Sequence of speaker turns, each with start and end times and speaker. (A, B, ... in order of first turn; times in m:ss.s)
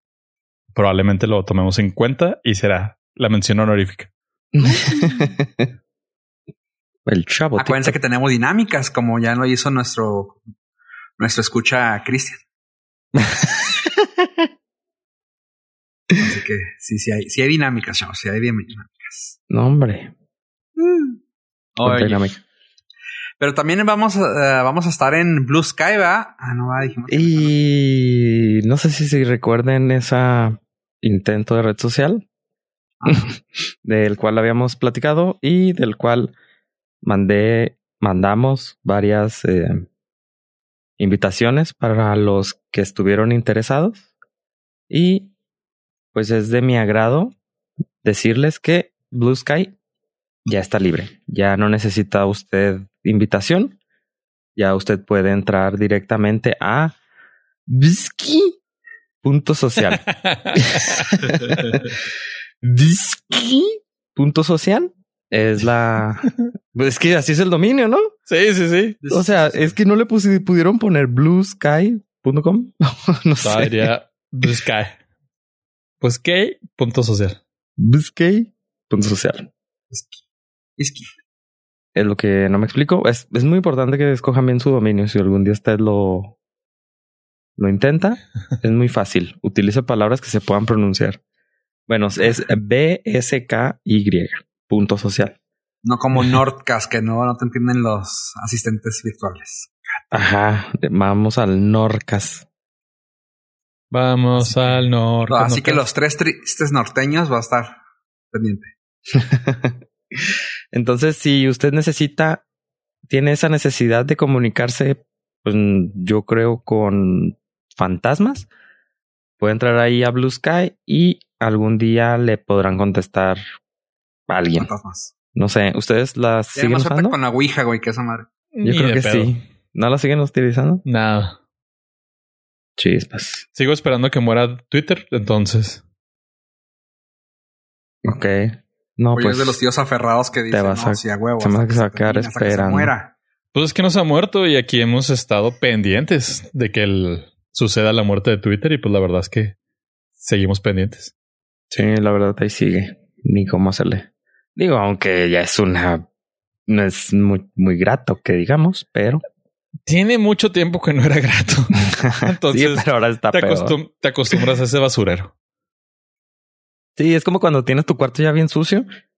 0:00.7-0:04.1 A
0:04.5-0:05.7 B
0:04.6-0:05.2 C
0:07.0-0:08.0 B
0:07.6-0:10.4 C
0:11.2-0:12.4 C
0:13.2-0:14.3 B
0:16.2-0:19.4 C
0:19.5-0:20.1 B
0:20.8-0:21.2 C
0:21.8-0:22.3 C
0:21.8-0:22.4 B
0:23.4-0:27.5 C
0:27.1-0:32.2 B
0:33.0-0:33.3 C
0:33.1-0:36.3 B
0:37.0-0:39.9 B
0:41.0-0:44.0 B
0:44.9-0:45.3 B
0:46.1-0:47.4 B
0:48.0-0:49.7 B
0:50.4-0:53.8 B
0:54.6-0:57.0 B
0:57.7-0:58.6 B
0:59.2-1:02.0 B
1:00.1-1:01.2 A
1:02.6-1:08.1 B
1:08.3-1:09.0 A
1:09.0-1:09.7 C
1:09.1-1:13.9 B
1:13.4-1:15.0 A
1:16.0-1:17.4 A
1:17.8-1:19.5 B
1:19.9-1:20.2 C
1:20.8-1:21.0 C
1:21.9-1:26.3 B
1:27.6-1:31.2 B
1:31.9-1:35.4 B
1:35.8-1:40.1 C
1:40.1-1:42.4 B
1:43.9-1:45.9 A
1:44.4-1:47.8 C
1:48.3-1:48.7 C
1:49.1-1:49.8 B
1:50.7-1:52.4 B
1:53.1-1:58.5 B
1:59.4-2:03.4 B
2:04.3-2:04.7 B
2:04.6-2:05.1 C
2:05.3-2:07.2 B
2:06.5-2:08.3 C
2:08.5-2:09.3 A
2:08.6-2:10.8 B
2:10.8-2:11.4 A
2:12.8-2:13.4 B
2:13.6-2:15.8 A
2:18.0-2:19.6 B
2:19.1-2:23.1 C
2:20.5-2:22.9 B
2:23.5-2:29.5 A
2:30.2-2:31.1 A
2:31.7-2:36.0 B
2:36.7-2:39.2 B
2:39.8-2:45.3 A
2:41.8-2:43.8 B
2:47.0-2:48.9 B